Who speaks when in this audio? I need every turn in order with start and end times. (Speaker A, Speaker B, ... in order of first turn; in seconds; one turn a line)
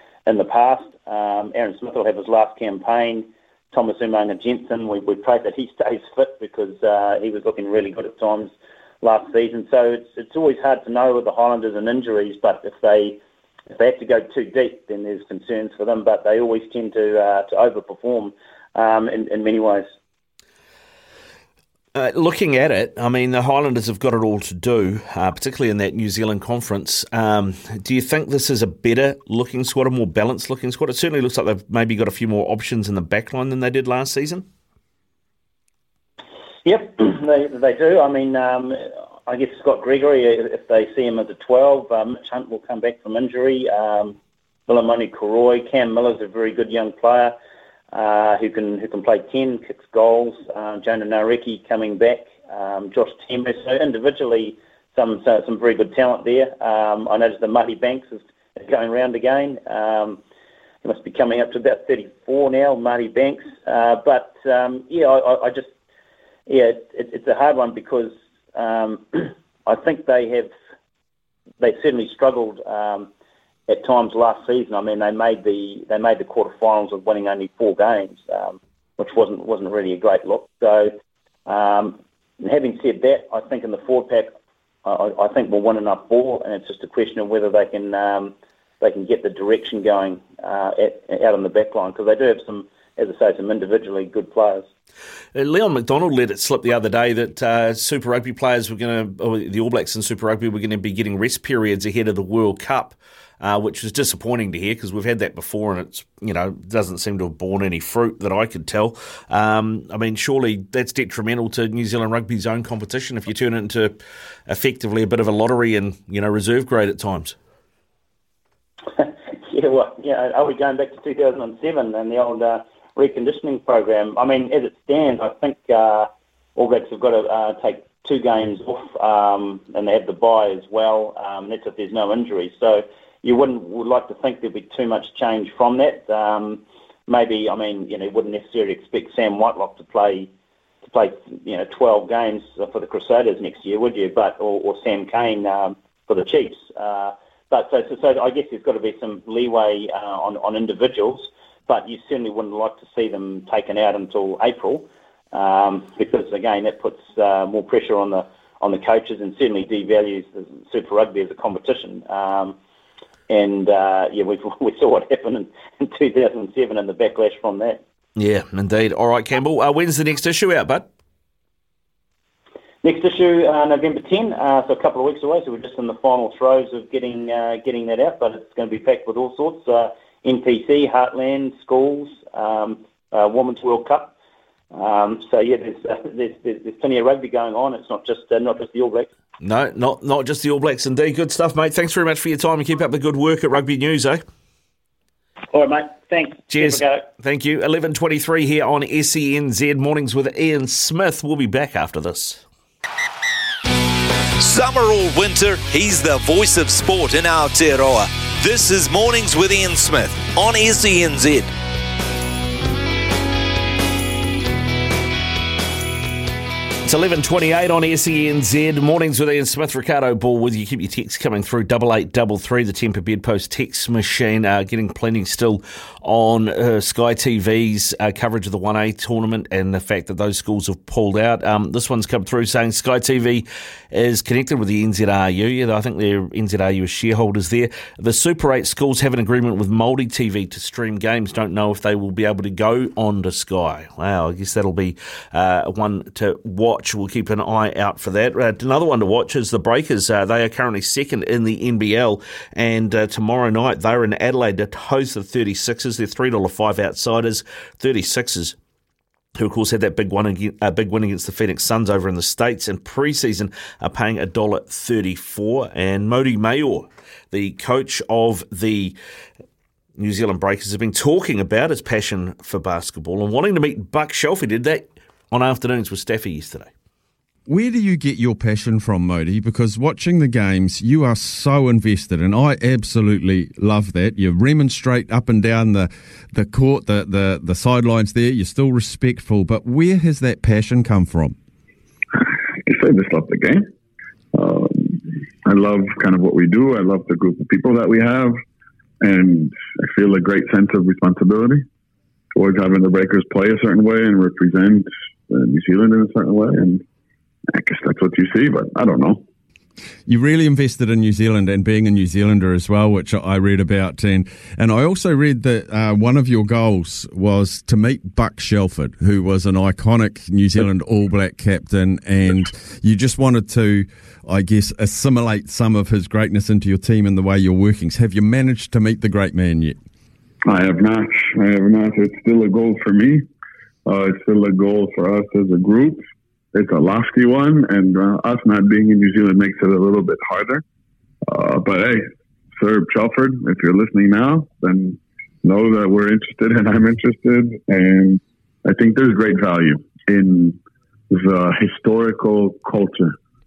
Speaker A: 0.2-13.2
Speaker A: 13.7-19.9
Speaker B: 21.9-34.5
Speaker A: 36.6-44.1
Speaker A: 44.7-47.3
Speaker A: 47.9-60.2
Speaker A: 60.8-65.7
Speaker A: 66.5-70.5
Speaker A: 71.6-73.1
Speaker A: 73.7-80.9
Speaker A: 81.5-84.3
Speaker A: 84.8-94.7
Speaker B: 95.3-117.3
Speaker A: 119.0-140.3
Speaker A: 140.8-162.6
Speaker A: 163.3-167.8
Speaker B: 168.2-170.9
Speaker A: 172.8-184.1
Speaker A: 184.7-189.1
Speaker B: 189.4-194.2
Speaker A: 195.5-197.0
Speaker B: 196.5-202.4
Speaker C: 204.4-211.5
Speaker B: 216.8-258.6
Speaker B: 259.4-268.9
Speaker B: 270.0-276.7
Speaker D: 277.5-291.4
Speaker E: 292.2-293.7
Speaker E: 294.3-298.4
Speaker E: 299.0-301.6
Speaker E: 302.3-306.8
Speaker E: 307.5-309.2
Speaker D: 310.1-329.8
Speaker E: 330.4-333.2
Speaker E: 333.9-340.6
Speaker E: 341.3-350.6
Speaker E: 351.1-353.1